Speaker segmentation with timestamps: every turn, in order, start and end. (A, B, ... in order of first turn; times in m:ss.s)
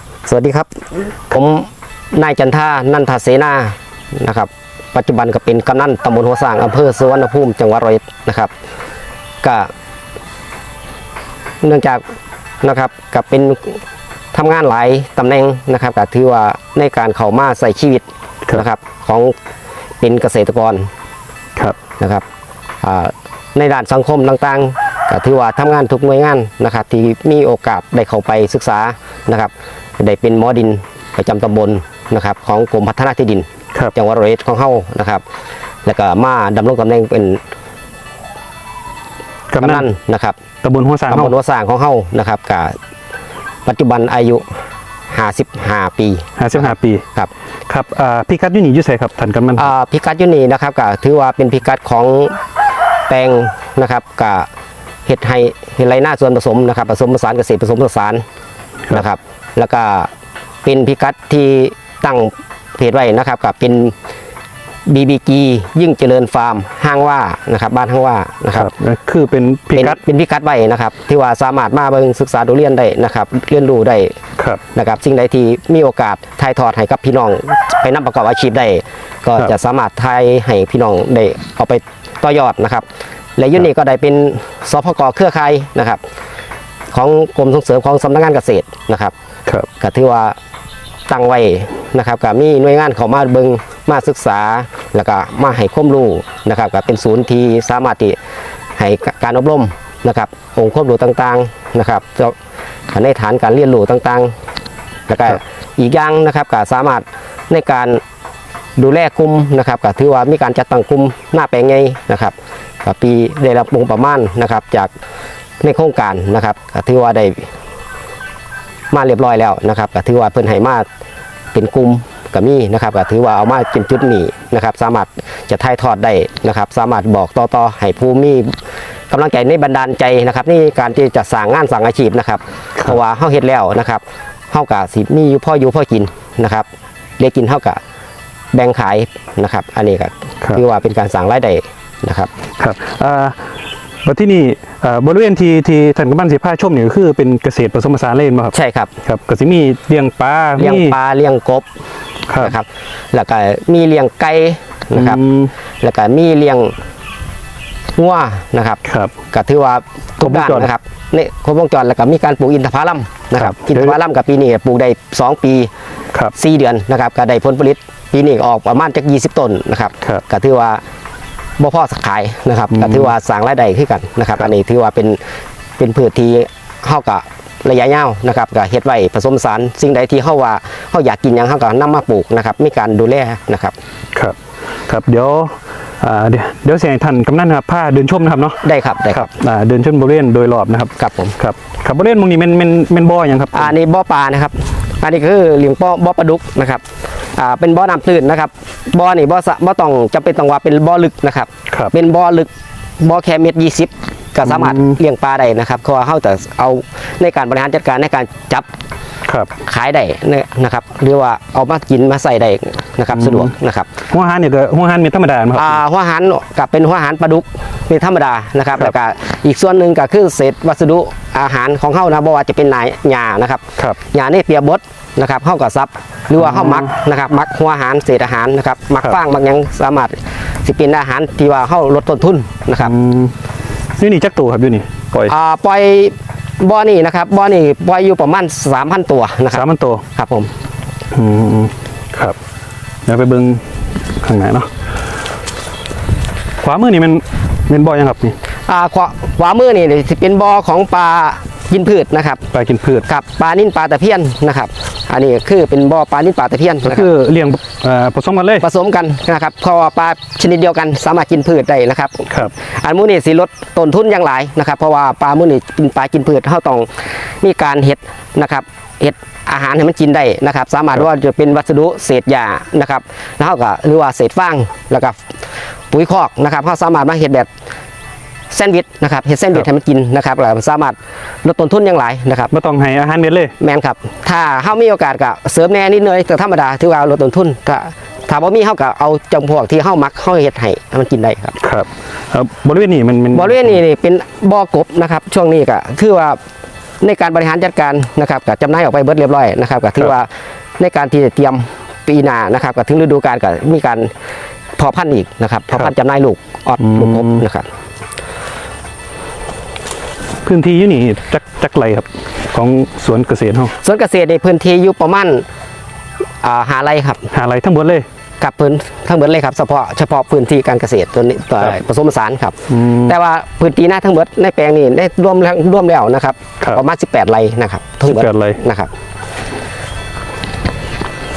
0:00.3-0:00.7 A
0:01.3-0:08.5 A
0:09.4-0:09.7 A
0:11.6-0:12.0 A
0:12.6-0:13.8 A
0:14.3-0:19.3 A
0:20.0-0:20.9 A
0:22.8-0:35.2 A
0:35.9-0:37.4 A
0:39.5-0:39.9 B
0:39.6-0:40.4 A
0:40.6-0:41.4 B
0:41.1-0:42.8 A
0:43.7-0:44.4 A
0:45.1-0:47.3 A
0:46.4-0:47.0 B
0:47.7-0:49.7 B
0:49.6-0:52.4 A
0:53.1-0:54.5 A
0:55.1-0:58.2 A
0:58.9-1:00.1 A
1:00.6-1:04.0 A
1:04.9-1:08.7 A
1:08.5-1:10.0 B
1:09.8-1:14.2 A
1:14.7-1:22.8 A
1:23.4-1:26.0 A
1:26.9-1:29.1 A
1:29.8-1:30.4 A
1:31.1-1:38.2 A
1:38.8-1:42.4 A
1:42.9-1:44.3 A
1:45.1-1:48.0 A
1:48.8-1:54.9 A
1:55.6-1:57.5 A
1:58.9-2:00.9 A
2:01.5-2:08.6 A
2:09.1-2:16.7 A
2:17.2-2:17.8 A
2:18.5-2:22.3 A
2:22.6-2:23.4 B
2:24.0-2:31.0 B
2:28.5-2:28.9 A
2:30.6-2:31.7 A
2:32.3-2:32.5 B
2:32.4-2:35.2 A
2:35.0-2:35.5 B
2:35.8-2:36.7 A
2:38.0-2:38.8 A
2:38.8-2:39.1 B
2:39.3-2:45.7 A
2:40.2-2:40.7 B
2:43.4-2:44.0 B
2:46.3-2:50.8 A
2:51.6-2:55.2 A
2:52.7-2:53.1 B
2:55.8-3:03.8 A
3:04.9-3:13.7 B
3:08.6-3:09.3 A
3:11.0-3:11.4 A
3:13.5-3:16.8 A
3:17.4-3:28.7 A
3:24.4-3:25.0 B
3:29.6-3:33.9 A
3:33.2-3:33.5 B
3:34.1-3:35.8 B
3:35.6-3:52.9 A
3:46.4-3:46.9 B
3:52.8-3:53.3 B
3:54.0-3:55.3 B
3:55.3-4:00.5 A
3:59.5-4:00.0 B
4:01.1-4:02.4 B
4:03.1-4:04.7 B
4:06.6-4:08.4 B
4:08.7-4:12.4 A
4:12.5-4:13.0 B
4:13.1-4:17.1 A
4:16.8-4:18.7 B
4:18.6-4:35.2 A
4:35.9-4:37.5 A
4:38.5-4:42.5 A
4:42.5-4:43.5 B
4:43.6-4:51.6 A
4:51.6-4:53.8 B
4:53.3-4:56.4 A
4:57.0-5:04.1 A
5:04.8-5:07.7 A
5:06.8-5:07.4 B
5:10.4-5:13.7 B
5:13.8-5:15.5 A
5:16.4-5:17.3 A
5:17.3-5:18.1 B
5:18.4-5:28.9 A
5:22.7-5:23.1 B
5:28.1-5:28.6 B